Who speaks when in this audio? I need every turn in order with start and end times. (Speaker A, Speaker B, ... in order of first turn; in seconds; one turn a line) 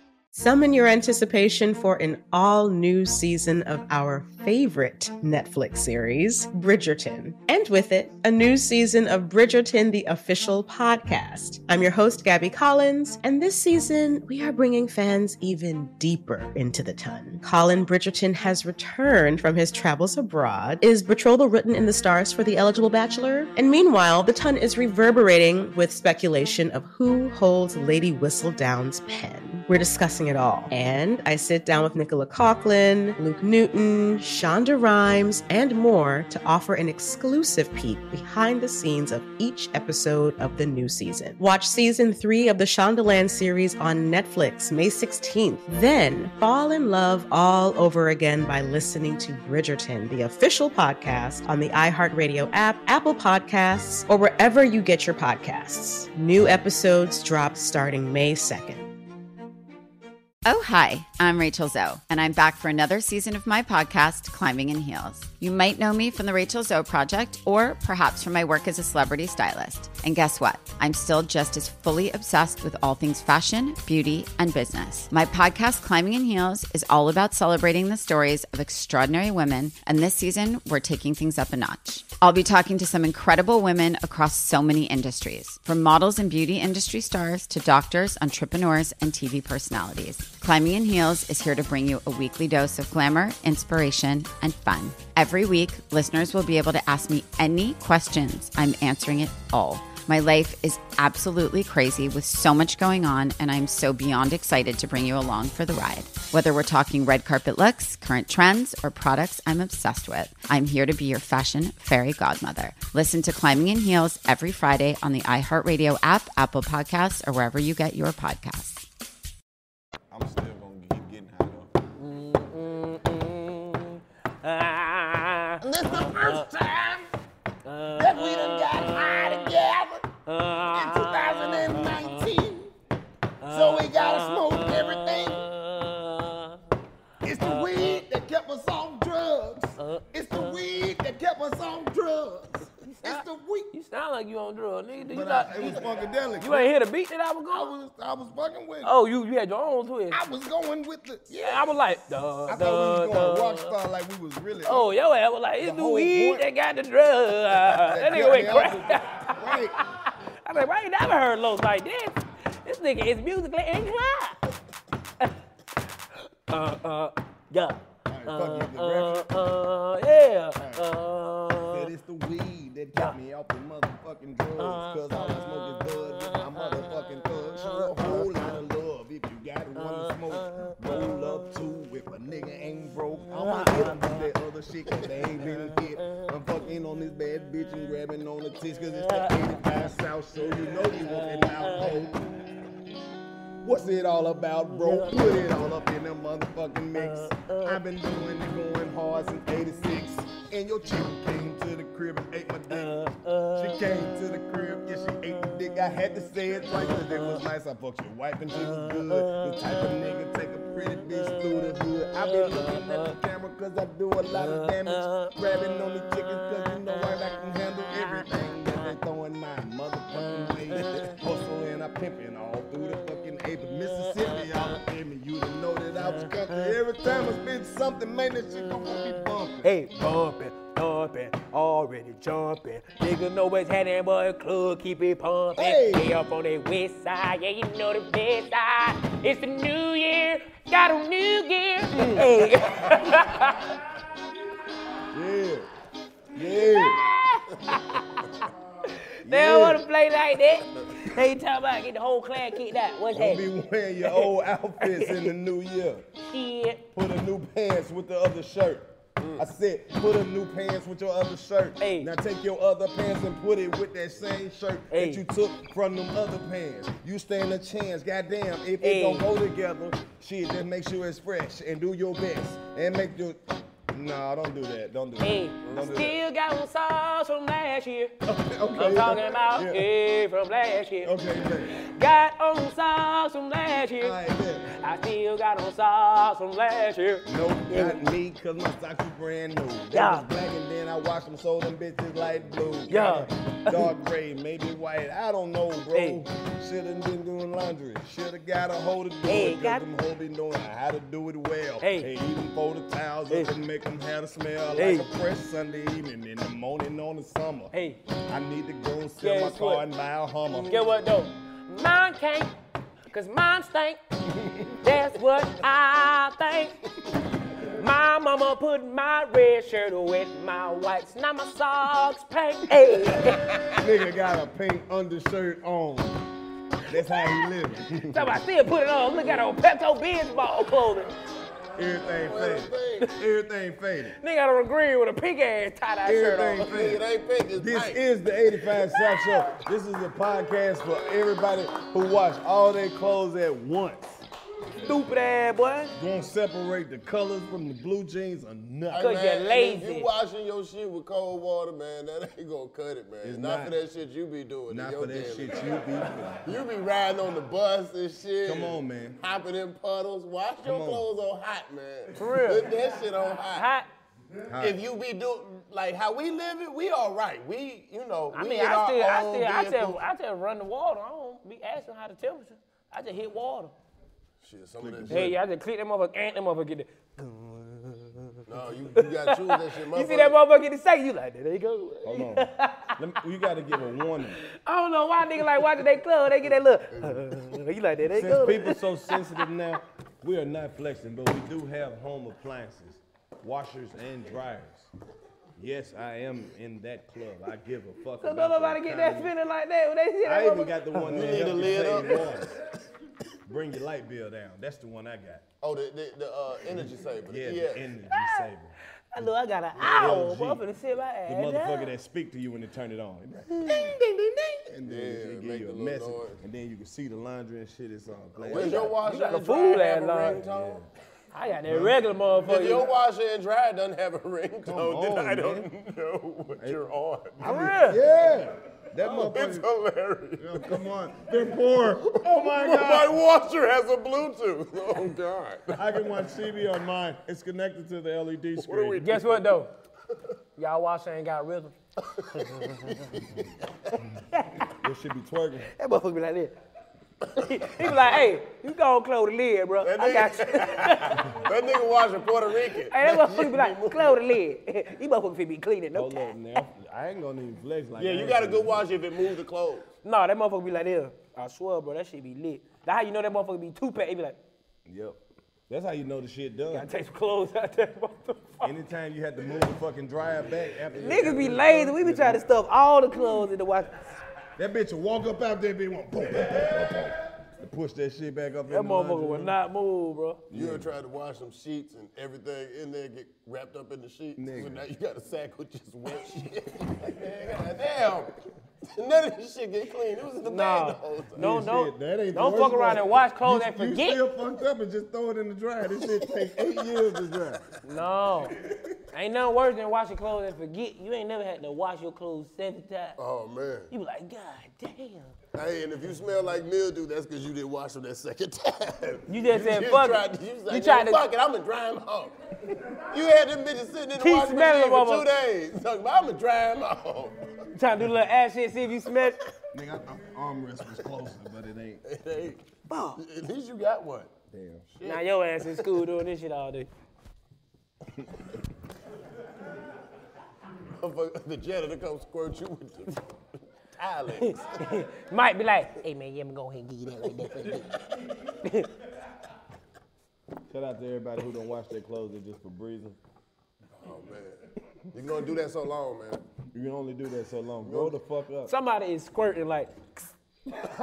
Speaker A: 0.3-58.9
Speaker B: 60.4-118.8
Speaker C: 120.1-121.7
Speaker D: 122.0-126.5
Speaker C: 125.6-127.0
Speaker D: 127.7-129.5
Speaker C: 128.0-130.0
Speaker D: 130.2-132.3
Speaker C: 130.7-132.7
Speaker D: 133.4-136.6
Speaker C: 133.5-135.4
Speaker C: 137.2-143.7
Speaker D: 137.4-138.0
Speaker D: 139.8-140.6
Speaker D: 142.8-145.8
Speaker C: 145.1-146.7
Speaker D: 146.4-147.7
Speaker C: 147.5-148.9
Speaker D: 148.8-150.2
Speaker C: 150.1-151.6
Speaker D: 151.3-153.7
Speaker C: 152.5-154.9
Speaker D: 154.6-164.4
Speaker C: 155.6-156.5
Speaker C: 157.5-159.8
Speaker D: 166.5-171.9
Speaker C: 168.1-169.3
Speaker C: 170.6-170.9
Speaker C: 171.7-192.2
Speaker D: 174.6-175.4
Speaker D: 177.6-178.3
Speaker D: 179.8-180.9
Speaker D: 183.4-184.2
Speaker D: 189.1-189.6
Speaker D: 191.1-191.9
Speaker C: 193.6-202.9
Speaker D: 194.8-195.6
Speaker D: 197.0-197.8
Speaker D: 202.7-203.8
Speaker C: 203.5-229.7
Speaker D: 206.7-207.4
Speaker D: 208.6-209.8
Speaker D: 212.2-213.1
Speaker D: 214.4-215.3
Speaker D: 220.8-221.1
Speaker D: 226.2-226.6
Speaker D: 229.6-243.7
Speaker C: 235.6-236.2
Speaker C: 241.9-242.3
Speaker C: 245.1-245.7
Speaker C: 246.3-247.0
Speaker D: 246.5-253.5
Speaker C: 249.2-249.8
Speaker C: 253.1-256.0
Speaker D: 254.0-254.3
Speaker D: 254.8-255.3
Speaker D: 256.2-256.9
Speaker C: 256.9-273.4
Speaker D: 261.8-262.1
Speaker D: 264.9-265.2
Speaker D: 268.8-269.3
Speaker C: 273.9-276.2
Speaker D: 275.2-278.1
Speaker C: 278.2-279.9
Speaker D: 278.8-281.1
Speaker C: 281.0-281.8
Speaker D: 281.8-284.2
Speaker C: 284.0-284.7
Speaker D: 284.7-288.0
Speaker C: 287.2-307.7
Speaker D: 289.9-290.3
Speaker D: 292.9-293.9
Speaker D: 295.9-296.2
Speaker D: 299.2-299.8
Speaker D: 301.8-302.1
Speaker D: 304.8-305.1
Speaker D: 307.7-308.0
Speaker C: 308.3-311.0
Speaker D: 309.2-309.9
Speaker D: 310.5-312.5
Speaker D: 313.1-314.0
Speaker D: 314.7-316.8
Speaker D: 317.7-323.5
Speaker C: 323.7-326.2
Speaker C: 326.9-328.3
Speaker D: 328.1-331.1
Speaker C: 331.8-334.1
Speaker E: 332.1-333.1
Speaker D: 334.2-336.8
Speaker C: 336.0-344.2
Speaker E: 336.6-338.0
Speaker D: 339.0-339.4
Speaker D: 344.8-345.9
Speaker C: 345.9-349.1
Speaker E: 348.9-363.7
Speaker D: 348.9-350.1
Speaker C: 353.2-353.8
Speaker C: 354.7-356.5
Speaker C: 358.4-359.2
Speaker C: 360.6-361.1
Speaker D: 362.2-362.7
Speaker D: 363.5-363.9
Speaker C: 364.5-364.8
Speaker E: 364.6-370.0
Speaker D: 368.3-373.7
Speaker E: 374.4-375.3
Speaker C: 374.8-375.4
Speaker D: 375.1-378.4
Speaker E: 378.5-380.4
Speaker D: 378.9-382.9
Speaker C: 382.0-384.4
Speaker D: 384.6-389.4
Speaker E: 386.9-387.4
Speaker C: 388.1-394.9
Speaker C: 395.6-399.3
Speaker D: 398.2-401.3
Speaker C: 400.2-402.5
Speaker E: 401.1-402.3
Speaker C: 403.5-405.4
Speaker E: 405.6-407.9
Speaker C: 407.2-408.7
Speaker D: 408.1-408.4
Speaker D: 409.1-411.9
Speaker C: 409.8-410.6
Speaker C: 411.3-419.0
Speaker D: 413.5-414.0
Speaker E: 414.9-416.4
Speaker E: 418.4-420.8
Speaker D: 418.5-420.4
Speaker C: 420.4-420.9
Speaker D: 421.3-422.9
Speaker C: 421.7-421.9
Speaker E: 422.4-427.4
Speaker C: 424.6-425.7
Speaker C: 426.6-426.8
Speaker C: 427.4-429.7
Speaker D: 427.4-428.0
Speaker E: 429.0-430.7
Speaker C: 430.4-433.1
Speaker E: 432.1-436.1
Speaker C: 435.7-439.1
Speaker E: 438.6-439.6
Speaker D: 439.0-439.7
Speaker D: 440.6-441.7
Speaker D: 442.4-442.9
Speaker E: 442.9-443.4
Speaker D: 444.4-444.6
Speaker C: 444.8-445.7
Speaker D: 445.8-446.5
Speaker D: 447.4-451.3
Speaker E: 449.8-454.2
Speaker D: 452.9-456.3
Speaker C: 455.9-458.9
Speaker E: 457.9-459.9
Speaker D: 460.0-464.4
Speaker C: 464.9-466.9
Speaker D: 466.7-468.7
Speaker C: 468.6-472.4
Speaker D: 471.0-474.1
Speaker C: 474.6-479.6
Speaker D: 478.7-480.4
Speaker C: 480.5-480.9
Speaker E: 480.5-488.3
Speaker C: 484.4-484.8
Speaker E: 488.9-491.5
Speaker D: 490.4-494.2
Speaker C: 490.9-497.6
Speaker D: 497.8-498.6
Speaker D: 499.1-503.2
Speaker E: 503.2-503.9
Speaker D: 503.9-505.3
Speaker E: 505.5-512.3
Speaker D: 509.3-511.2
Speaker E: 513.1-517.5
Speaker D: 514.2-515.3
Speaker D: 517.7-519.4
Speaker C: 519.7-522.0
Speaker E: 522.0-522.6
Speaker D: 522.9-523.2
Speaker E: 523.1-524.3
Speaker C: 524.5-524.9
Speaker E: 524.9-525.8
Speaker D: 525.0-526.9
Speaker E: 531.0-533.2
Speaker E: 533.9-534.6
Speaker D: 534.4-537.8
Speaker E: 537.2-537.9
Speaker D: 538.6-538.9
Speaker C: 540.7-543.2
Speaker E: 544.0-546.4
Speaker C: 546.7-548.7
Speaker E: 547.8-548.1
Speaker D: 548.7-550.3